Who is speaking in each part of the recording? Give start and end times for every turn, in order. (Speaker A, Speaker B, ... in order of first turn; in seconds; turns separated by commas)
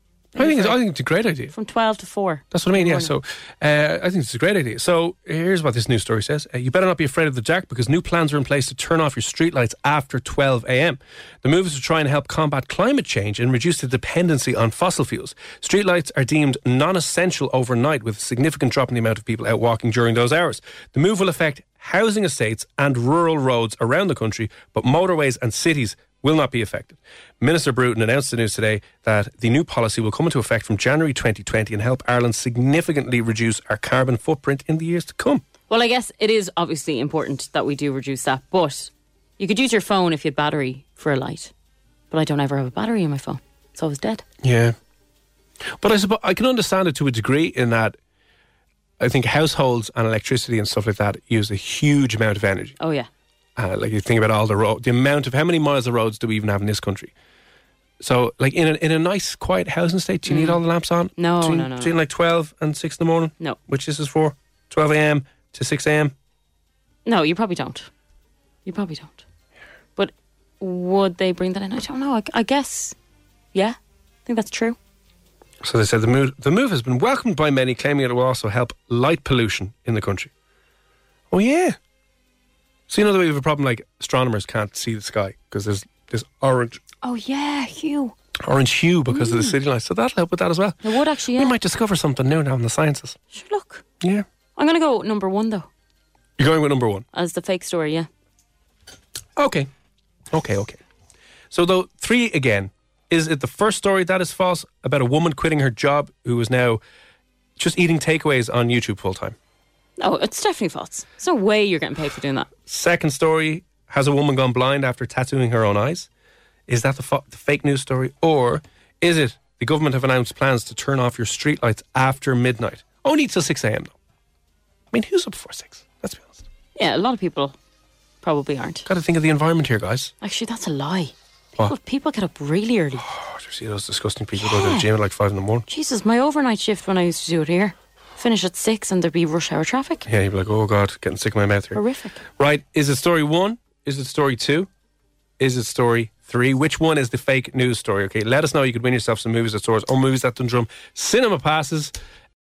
Speaker A: 0.3-1.5, Speaker B: 0.4-0.8, Speaker B: 1.5-3.1, Speaker A: 2.5-35.4, Speaker B: 35.7-41.5, Speaker B: 42.1-44.2, Speaker A: 44.4-44.8, Speaker A: 45.7-48.0, Speaker A: 49.0-52.8, Speaker B: 52.8-53.1, Speaker A: 53.6-57.1, Speaker A: 58.0-66.1, Speaker B: 60.3-60.6, Speaker B: 61.2-61.9, Speaker B: 67.0-67.9, Speaker B: 68.7-69.2, Speaker B: 70.0-72.9, Speaker B: 73.5-74.8, Speaker A: 75.6-80.3, Speaker A: 81.3-81.8, Speaker A: 82.9-86.8, Speaker B: 87.0-88.1, Speaker A: 88.4-93.2, Speaker B: 89.1-89.5, Speaker B: 90.8-91.5, Speaker B: 93.3-93.8, Speaker B: 94.5-95.7, Speaker A: 96.4-97.0, Speaker B: 97.1-98.1, Speaker A: 99.4-99.7, Speaker A: 100.3-100.8, Speaker A: 101.5-106.8, Speaker A: 107.6-109.3, Speaker B: 110.0-112.5, Speaker A: 112.7-116.1, Speaker A: 116.7-123.9, Speaker A: 124.9-126.4, Speaker B: 126.8-127.5, Speaker B: 128.2-128.8, Speaker A: 128.8-130.1, Speaker B: 130.2-133.0, Speaker A: 133.0-135.7, Speaker B: 134.4-134.8, Speaker B: 135.7-140.1, Speaker A: 140.1-141.8, Speaker B: 141.7-142.2, Speaker A: 142.4-144.7, Speaker A: 145.4-151.9